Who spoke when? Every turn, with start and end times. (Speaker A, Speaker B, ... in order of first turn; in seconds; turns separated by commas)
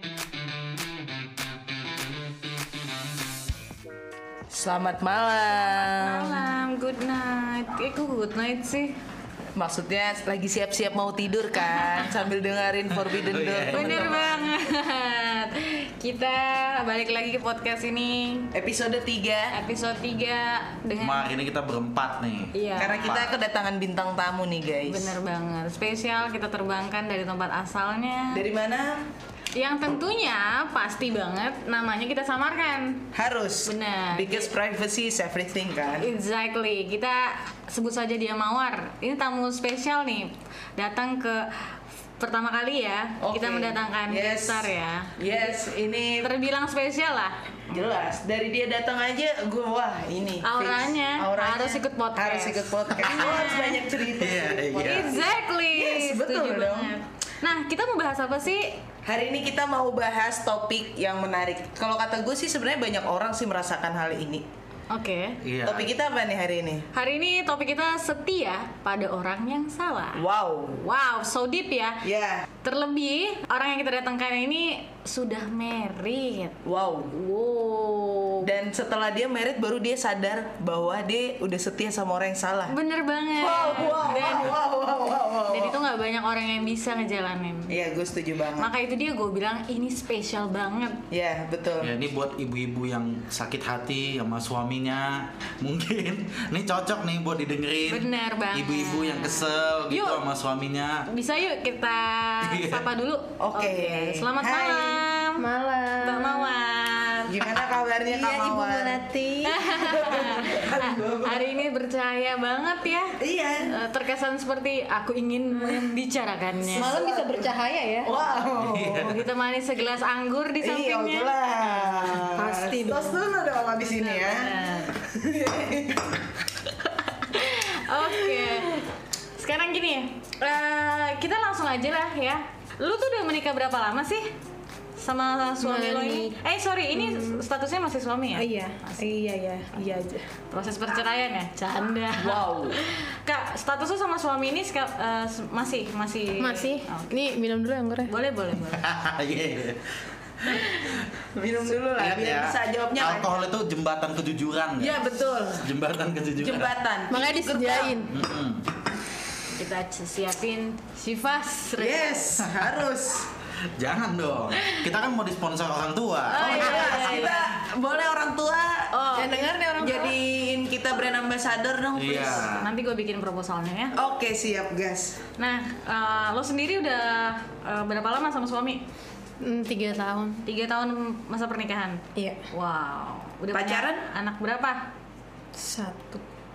Speaker A: 4.5-6.5, Speaker B: 5.8-9.0, Speaker A: 9.5-14.4, Speaker B: 11.7-12.1, Speaker C: 12.9-14.1, Speaker B: 13.7-18.5, Speaker A: 18.5-19.5, Speaker B: 19.5-21.3, Speaker C: 21.0-23.4, Speaker B: 22.5-23.1, Speaker A: 22.8-25.1, Speaker B: 24.9-28.4, Speaker A: 28.3-29.1, Speaker B: 29.5-33.1, Speaker A: 33.1-36.1, Speaker B: 33.6-34.5, Speaker B: 36.0-45.2, Speaker A: 43.2-46.3, Speaker B: 46.2-47.4, Speaker A: 47.7-56.9, Speaker B: 50.4-53.8, Speaker C: 52.9-53.3, Speaker C: 54.1-55.1, Speaker B: 54.8-58.8, Speaker A: 59.0-64.4, Speaker B: 64.9-65.4, Speaker C: 65.4-65.9, Speaker A: 65.6-66.9, Speaker B: 66.9-72.0, Speaker A: 70.2-70.8, Speaker A: 72.0-72.5, Speaker B: 72.6-76.6, Speaker A: 76.6-77.1, Speaker B: 77.1-78.5, Speaker A: 78.4-82.7, Speaker B: 82.7-84.5, Speaker A: 83.4-85.8, Speaker C: 83.8-84.5, Speaker B: 85.5-87.7, Speaker A: 87.7-88.7, Speaker B: 88.6-91.0, Speaker A: 91.1-91.9, Speaker C: 91.8-101.1, Speaker B: 97.9-100.2, Speaker B: 101.1-105.4, Speaker C: 102.4-102.9, Speaker A: 103.4-105.0, Speaker D: 105.4-106.6, Speaker B: 106.0-107.4, Speaker A: 107.3-109.0, Speaker D: 108.1-109.7, Speaker B: 109.4-116.9, Speaker A: 109.7-111.6, Speaker A: 113.2-113.7, Speaker A: 116.7-117.5, Speaker D: 116.7-118.1, Speaker A: 118.0-119.2, Speaker C: 118.6-119.2, Speaker B: 119.0-122.1, Speaker A: 120.6-126.3, Speaker D: 122.3-123.2, Speaker B: 124.0-124.9, Speaker B: 127.3-128.8, Speaker A: 128.1-128.7, Speaker B: 129.4-134.3, Speaker B: 135.0-139.0, Speaker D: 135.6-136.3, Speaker D: 136.9-137.4, Speaker D: 138.3-140.3, Speaker B: 140.5-147.1, Speaker A: 142.2-142.8, Speaker D: 146.4-148.1, Speaker B: 148.1-148.8, Speaker C: 148.7-149.9, Speaker C: 150.4-150.9, Speaker A: 151.3-153.4, Speaker C: 151.9-156.7, Speaker A: 154.8-155.7, Speaker A: 156.4-157.9, Speaker D: 157.1-158.1, Speaker C: 158.1-158.7, Speaker B: 159.6-162.3, Speaker A: 161.8-163.3, Speaker C: 162.4-162.8, Speaker C: 163.8-167.0, Speaker B: 166.3-167.4, Speaker A: 166.3-172.5, Speaker B: 168.9-169.9, Speaker C: 171.9-172.7, Speaker B: 172.2-174.0, Speaker A: 173.9-175.2, Speaker B: 175.4-178.8, Speaker D: 179.4-180.4, Speaker B: 180.4-184.9, Speaker A: 183.5-184.0, Speaker D: 185.5-186.2